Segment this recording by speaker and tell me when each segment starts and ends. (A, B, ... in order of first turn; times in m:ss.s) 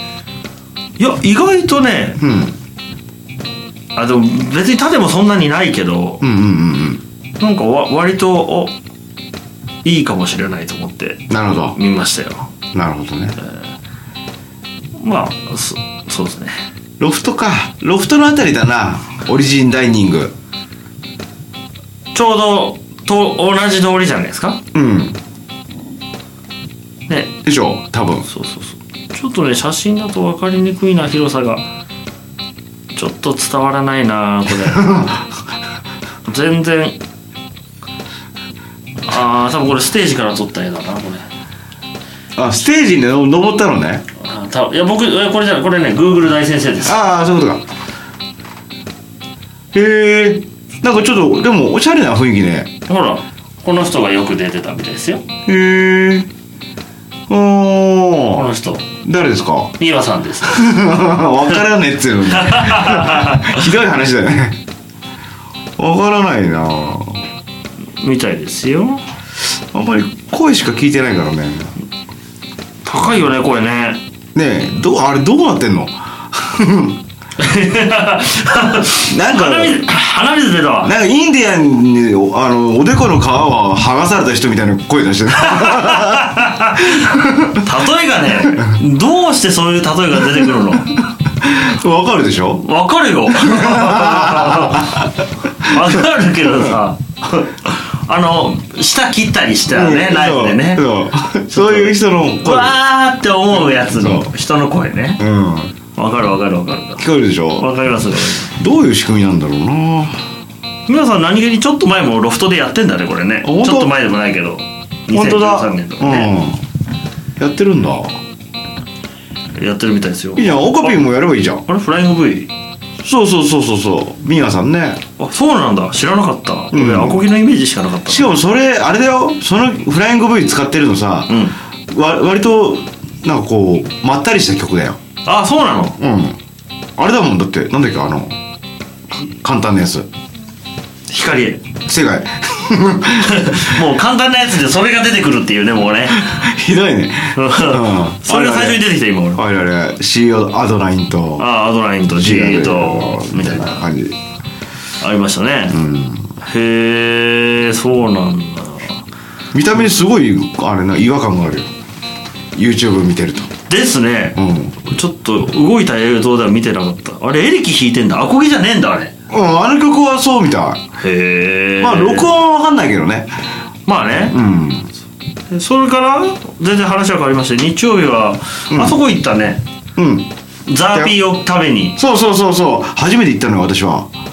0:01.0-0:02.2 A
0:02.2-0:02.6 B
0:04.0-0:06.2 A
0:06.2-0:07.0 B
0:07.4-0:08.7 A
0:09.8-0:12.5 A
0:11.3-0:11.8 B
0:12.7-0:13.4 B
0:15.0-0:16.5 A
0:17.0-0:20.3 B
0:22.1-0:24.6 A
0:24.7-0:25.2 B
0:27.1-0:27.3 A
0:27.4-0:28.3 B
0:28.2-0:31.7 A
0:32.9-0:34.9 A
0:34.6-0:35.2 B
0:36.3-0:37.0 A
0:39.0-0:41.2 A
0:42.4-0:44.0 B
0:44.2-0:47.0 A
0:46.8-0:47.6 B
0:49.7-0:52.7 B
0:52.9-0:55.2 A
0:55.4-0:56.3 B
0:57.3-0:58.5 B
0:58.3-0:58.8 A
0:59.0-0:59.7 B
0:59.8-1:00.8 A
1:00.4-1:04.6 B
1:02.3-1:03.6 A
1:05.8-1:07.3 B
1:08.0-1:09.0 A
1:09.7-1:11.7 B
1:12.8-1:14.0 A
1:14.3-1:17.0 B
1:17.4-1:20.9 A
1:19.0-1:19.9 B
1:20.8-1:27.6 B
1:25.4-1:31.0 A
1:28.4-1:28.7 B
1:31.4-1:32.6 B
1:32.6-1:40.8 A
1:33.3-1:35.1 B
1:35.6-1:36.0 B
1:39.7-1:42.8 B
1:41.5-1:45.2 A
1:43.6-1:44.3 B
1:45.2-1:45.7 B
1:45.9-1:48.5 A
1:47.0-1:47.7 B
1:48.4-1:50.2 B
1:50.9-1:56.3 A
1:53.4-1:53.9 B
1:55.1-1:56.6 B
1:57.4-1:58.2 B
1:59.5-2:01.0 A
2:00.4-2:01.6 B
2:01.6-2:02.5 A
2:03.0-2:05.0 B
2:05.2-2:08.4 A
2:06.7-2:07.3 B
2:08.1-2:15.0 B
2:11.3-2:11.6 A
2:15.2-2:16.0 A
2:16.0-2:16.4 B
2:17.0-2:18.4 B
2:19.1-2:20.1 B
2:21.1-2:21.6 A
2:21.8-2:23.8 B
2:23.2-2:26.4 A
2:26.1-2:31.5 B
2:27.3-2:29.4 A
2:31.4-2:33.8 A
2:32.1-2:34.2 B
2:35.0-2:35.8 A
2:35.7-2:36.3 B
2:36.4-2:39.0 A
2:39.5-2:41.7 B
2:42.5-2:43.5 B
2:43.7-2:49.1 A
2:44.3-2:44.7 B
2:49.3-2:50.8 B
2:51.0-2:52.3 A
2:51.8-2:53.3 B
2:53.8-2:54.4 A
2:54.3-2:54.9 B
2:55.5-2:59.6 A
2:58.7-2:59.0 B
3:00.0-3:00.3 B
3:00.7-3:02.0 A
3:00.9-3:01.2 B
3:02.0-3:04.1 B